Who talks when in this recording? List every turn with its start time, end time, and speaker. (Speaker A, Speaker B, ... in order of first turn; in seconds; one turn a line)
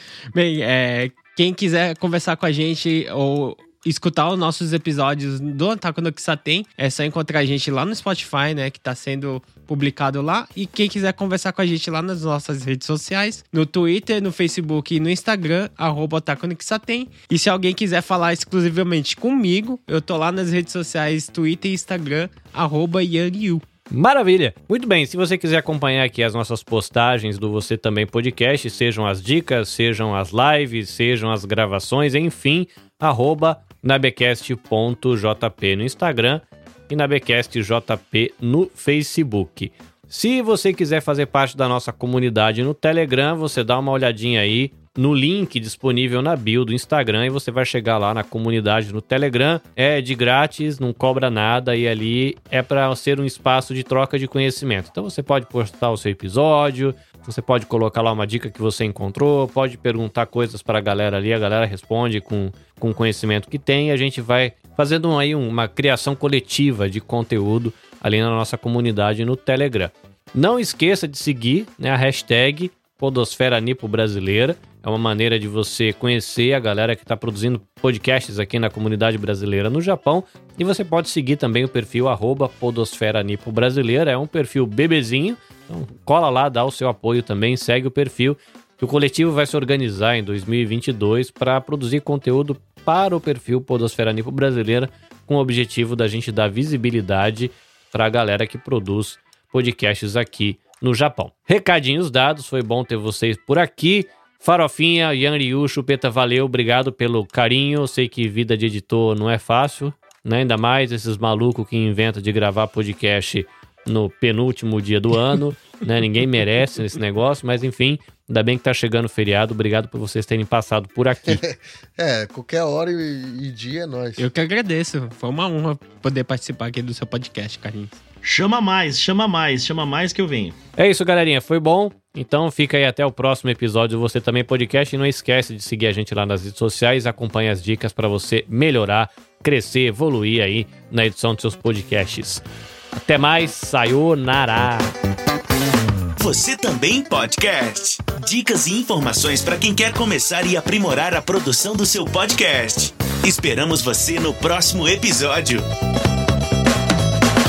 Speaker A: 0.3-23.6
Speaker B: 23.9-121.4
Speaker C: 121.2-124.3
Speaker A: 124.2-128.0
Speaker D: 128.2-130.6
Speaker B: 130.8-144.9
Speaker E: 146.2-155.6